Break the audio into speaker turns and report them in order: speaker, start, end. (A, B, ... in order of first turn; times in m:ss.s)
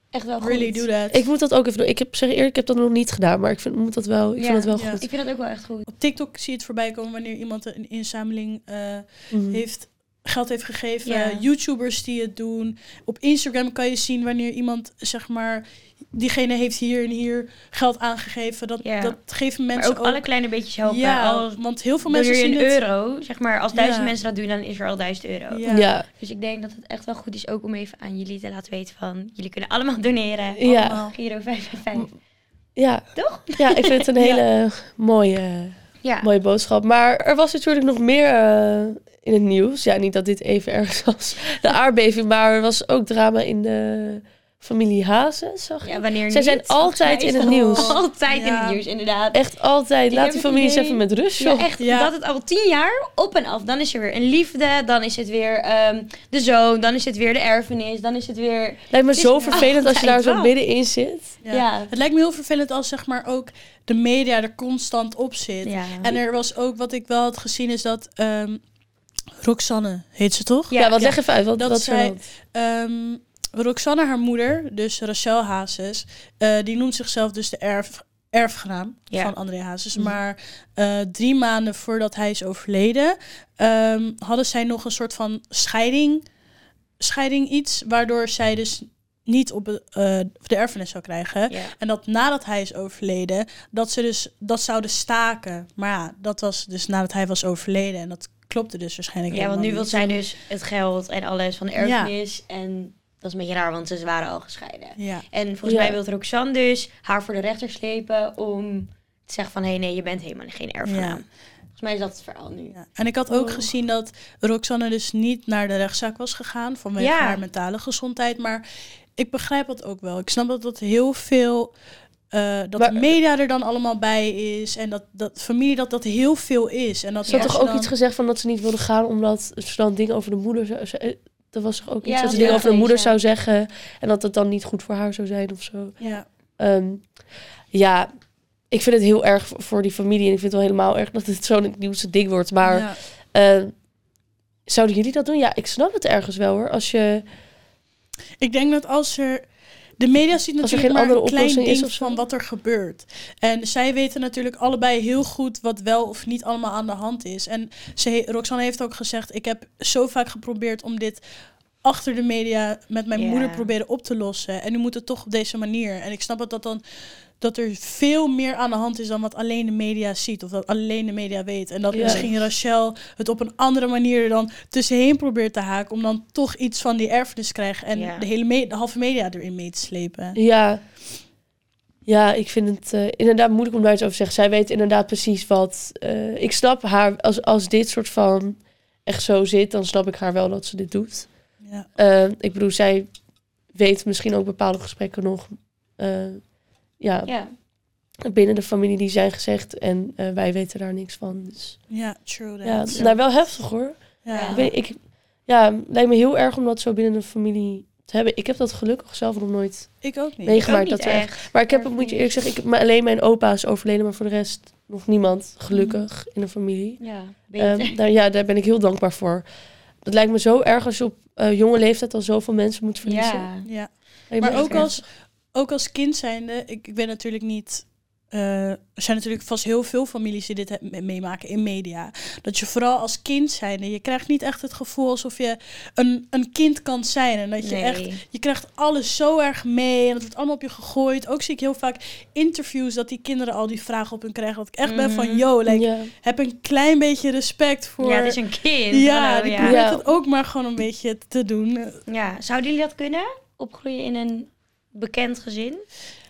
0:00.1-0:00.9 A
0:00.4-0:01.2 B
0:01.1-0:05.0 C
0:04.4-0:05.9 A
0:04.7-0:05.0 B
0:05.9-0:20.2 B
0:09.3-0:09.6 C
0:11.0-0:11.4 A
0:18.8-0:19.2 A
0:19.8-0:25.6 A
0:20.8-0:22.8 B
0:23.7-0:24.1 B
0:25.5-0:25.9 B
0:25.7-0:26.1 C
0:26.2-0:32.1 A
0:30.6-0:31.0 C
0:30.6-0:31.1 B
0:32.8-0:48.0 C
0:33.2-0:34.1 A
0:34.2-0:34.4 B
0:36.0-0:36.3 A
0:45.8-0:49.4 A
0:47.7-0:48.8 B
0:49.3-0:51.7 C
0:50.1-1:00.5 A
0:51.8-0:52.1 B
0:58.9-1:01.3 C
1:01.4-1:08.6 B
1:01.5-1:01.9 A
1:05.6-1:06.2 A
1:09.4-1:10.7 B
1:10.7-1:11.2 A
1:10.8-1:12.2 C
1:11.6-1:26.2 B
1:27.0-1:40.2 B
1:31.5-1:31.7 A
1:39.3-1:52.8 A
1:41.8-1:42.1 B
1:45.0-1:45.2 B
1:45.6-1:46.0 C
1:50.8-1:51.2 B
1:52.7-1:58.6 B
1:53.3-1:53.6 C
1:57.0-1:57.4 A
1:59.2-2:01.7 B
2:02.3-2:07.9 B
2:02.8-2:03.1 C
2:07.3-2:07.5 A
2:07.3-2:16.0 C
2:12.0-2:13.2 A
2:12.3-2:12.6 B
2:16.0-2:16.2 B
2:16.6-2:17.0 C
2:17.7-2:18.1 C
2:18.7-2:23.7 C
2:22.6-2:23.0 B
2:24.7-2:27.2 C
2:28.4-2:29.5 B
2:30.0-2:41.2 B
2:30.6-2:32.2 C
2:41.8-2:46.8 B
2:43.1-2:43.7 A
2:47.4-3:00.4 B
2:51.9-2:52.3 C
2:52.0-2:52.3 A
2:57.9-2:58.2 A
3:00.4-3:00.8 C
3:02.1-3:11.3 C
3:12.0-3:13.1 C
3:13.7-3:16.4 C
3:17.0-3:17.3 C
3:17.2-3:17.5 A
3:18.2-3:21.8 C
3:21.9-3:23.1 B
3:22.6-3:29.9 C
3:24.2-3:24.6 B
3:24.3-3:24.7 A
3:30.0-3:30.6 B
3:30.4-3:37.0 C
3:30.6-3:32.3 A
3:35.7-3:36.0 B
3:37.0-3:37.9 A
3:37.6-3:39.4 C
3:40.0-3:43.5 C
3:43.0-3:43.7 A
3:43.6-4:08.4 B
3:44.3-3:44.9 C
3:44.4-3:45.0 A
3:57.6-3:58.2 A
4:04.8-4:05.5 A
4:05.7-4:06.1 C
4:08.0-4:09.8 A
4:08.9-4:12.0 B
4:09.6-4:10.0 C
4:12.1-4:15.8 A